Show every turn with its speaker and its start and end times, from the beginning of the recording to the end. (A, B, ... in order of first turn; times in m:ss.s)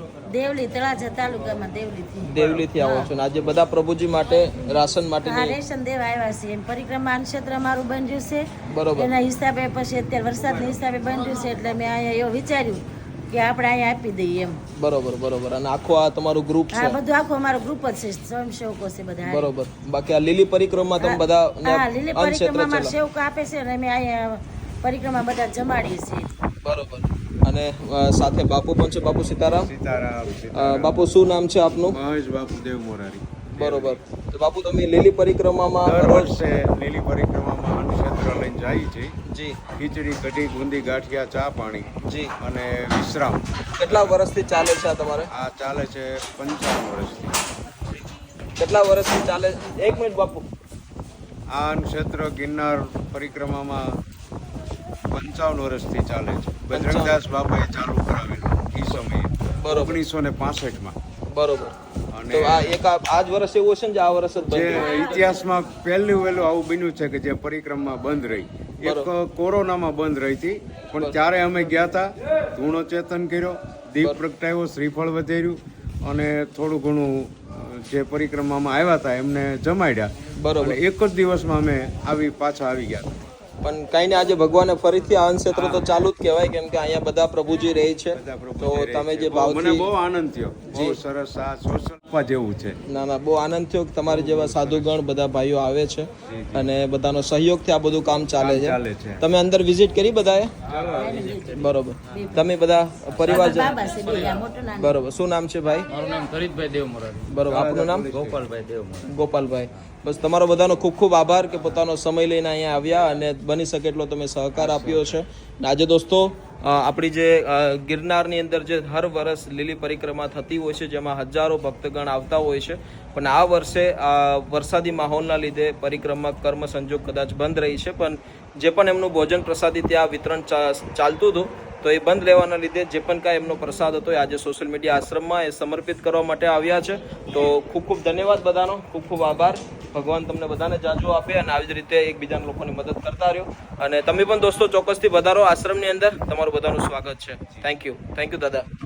0:00.3-0:03.1 A
0:02.2-0:05.6 B
0:04.4-0:14.6 A
0:08.7-0:09.1 B
0:14.8-0:17.0 B
0:16.7-0:19.5 A
0:19.2-0:22.9 B
0:21.0-0:26.3 A
0:26.6-0:29.7 B
0:29.5-0:31.0 C
0:30.6-0:32.0 B
0:31.9-0:34.0 C
0:33.6-0:36.3 B
0:35.8-0:39.1 C
0:39.3-0:39.6 B
0:39.8-0:44.2 C
0:42.0-0:42.3 B
0:43.8-0:45.3 B
0:45.3-0:47.4 C
0:48.6-0:50.4 B
0:51.5-0:54.0 C
0:55.1-1:01.0 C
0:56.7-0:57.2 B
0:59.6-1:00.0 B
1:01.3-1:01.8 B
1:02.1-1:02.8 C
1:02.3-1:05.0 B
1:04.5-1:23.2 C
1:04.8-1:05.3 A
1:08.8-1:09.1 B
1:20.4-1:20.8 B
1:23.6-1:29.9 B
1:25.5-1:25.9 C
1:28.1-1:32.8 C
1:30.7-1:31.0 B
1:32.9-1:40.5 B
1:34.1-1:35.0 C
1:36.3-1:36.7 C
1:38.4-1:39.2 C
1:40.9-1:42.4 A
1:41.5-1:43.8 B
1:43.2-1:45.0 A
1:44.8-1:45.9 B
1:45.9-1:47.3 D
1:47.3-1:48.1 B
1:47.5-1:48.5 C
1:48.1-1:49.1 D
1:49.0-2:28.7 B
1:54.6-1:55.2 C